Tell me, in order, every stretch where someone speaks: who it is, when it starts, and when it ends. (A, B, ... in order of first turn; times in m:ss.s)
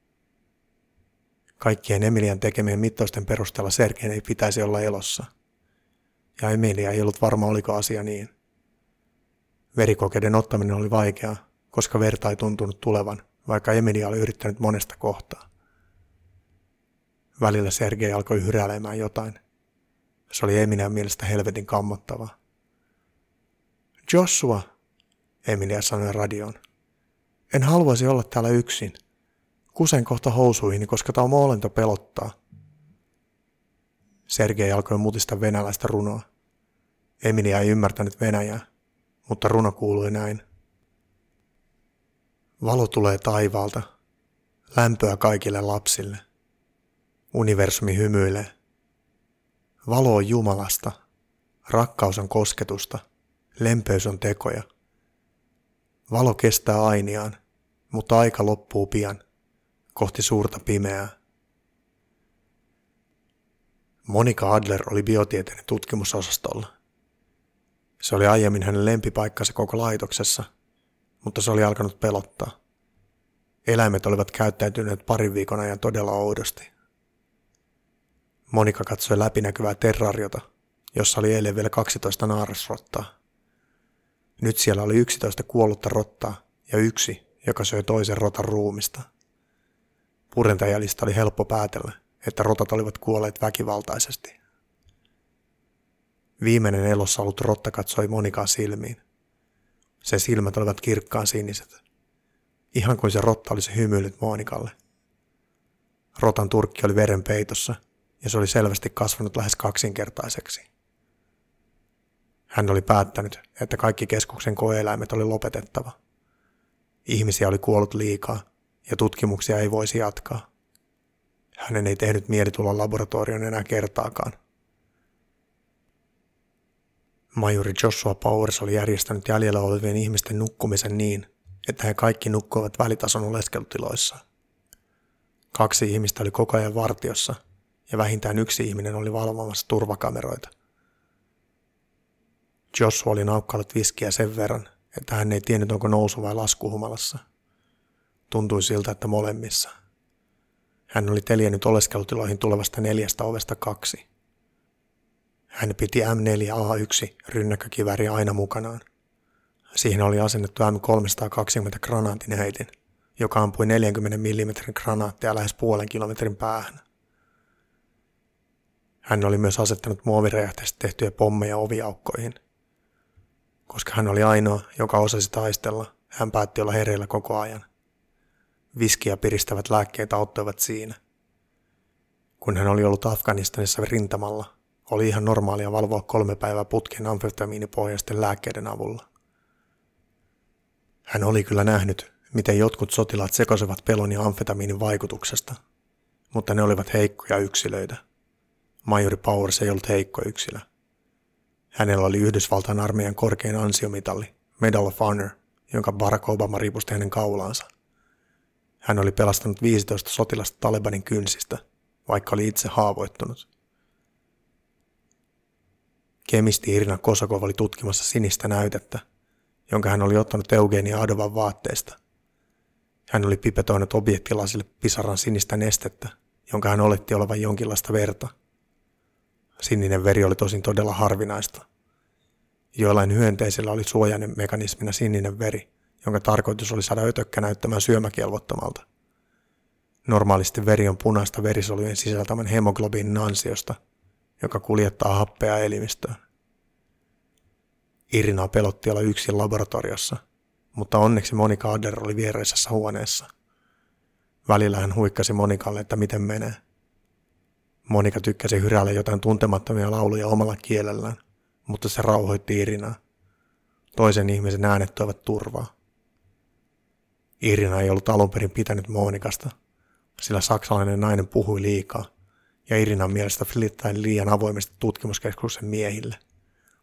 0:01.6-0:05.3 A
0:06.4-0:08.3 A
0:09.7-0:15.4 A
0:17.4-0:19.4 A
0:20.3-0:22.3 A
0:24.1-0:24.6 A
0:25.4-0:26.6 A
0:27.5-0:29.0 A
0:29.7-0:32.3 A
0:34.3-0:36.2 A
0:37.2-0:38.6 A
0:39.2-0:40.4 A
0:42.6-0:43.9 A
0:44.7-0:46.2 A
0:47.3-0:48.5 A
0:49.8-0:51.0 A
0:51.6-0:53.0 A
0:53.6-0:54.6 A
0:56.1-0:57.4 A
0:57.9-0:59.2 A
0:59.9-1:01.1 A
1:04.0-1:06.7 A
1:08.0-1:10.4 A
1:11.2-1:12.5 A
1:13.6-1:16.7 A
1:18.5-1:23.1 A
1:24.4-1:29.1 A
1:30.3-1:34.4 A
1:36.4-1:39.0 A
1:40.0-1:41.8 A
1:42.7-1:44.7 A
1:46.1-1:50.7 A
1:52.5-1:56.0 A
1:57.0-2:00.4 A
2:01.6-2:04.4 A
2:07.3-2:14.2 A
2:15.5-2:17.4 A
2:17.9-2:20.5 A
2:22.7-2:27.2 A
2:28.3-2:29.7 A
2:30.9-2:34.0 A
2:35.5-2:38.8 A
2:39.7-2:46.8 A
2:49.0-2:52.4 A
2:53.7-2:57.6 A
2:58.7-3:01.0 A
3:02.4-3:09.0 A
3:11.1-3:15.6 A
3:16.3-3:18.0 A
3:18.8-3:20.6 A
3:21.7-3:27.7 A
3:28.8-3:33.5 A
3:36.2-3:39.0 A
3:39.7-3:42.0 A
3:43.1-3:48.3 A
3:49.6-3:51.6 A
3:52.7-3:58.8 A
4:00.0-4:03.8 A
4:04.4-4:06.2 A
4:08.1-4:10.2 A
4:10.7-4:13.3 A
4:14.4-4:16.6 A
4:17.8-4:23.0 A
4:23.9-4:25.7 A
4:27.4-4:29.5 A
4:30.2-4:32.1 A
4:32.7-4:36.2 A